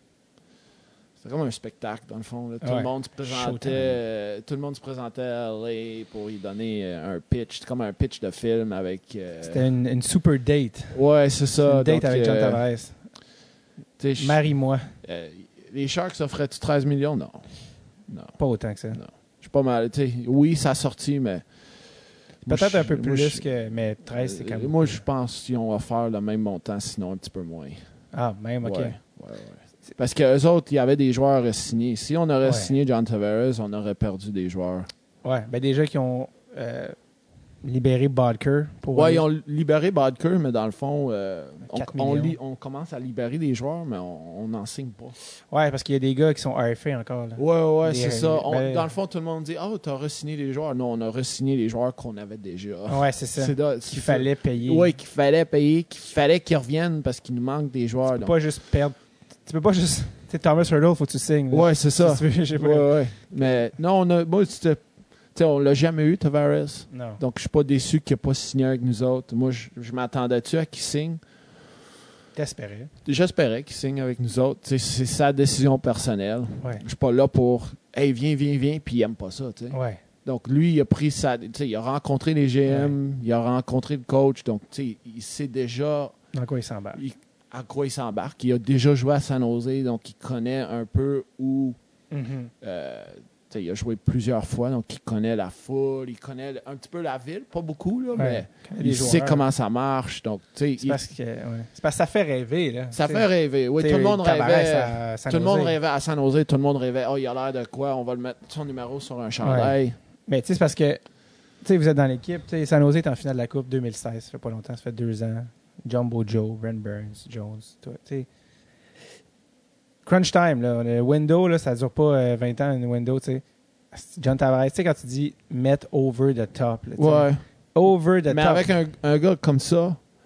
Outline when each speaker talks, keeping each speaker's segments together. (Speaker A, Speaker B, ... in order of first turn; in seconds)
Speaker A: 1.2-9.6, 10.9-12.6, 14.0-14.4, 15.0-18.4, 18.9-21.4, 22.4-27.8, 28.6-34.9, 38.9-45.1, 47.4-58.3, 61.5-71.2, 73.0-86.1, 86.9-91.8, 92.6-101.0, 102.9-110.0, 127.0-127.4, 128.3-130.0
Speaker B: 2.6-4.0, 9.4-11.0, 11.6-13.0, 14.2-14.9, 18.4-19.0, 22.5-25.0, 28.1-29.0, 32.4-32.7, 35.2-37.0, 37.6-39.2, 41.6-42.4, 45.5-48.9, 52.9-54.9, 58.1-62.9, 66.9-67.2, 72.3-72.9, 79.7-80.0, 82.7-82.9, 86.3-87.0, 92.1-92.5, 98.1-99.4, 100.8-103.2, 103.8-105.8, 109.4-111.0, 111.6-118.3, 120.0-123.4, 123.9-128.7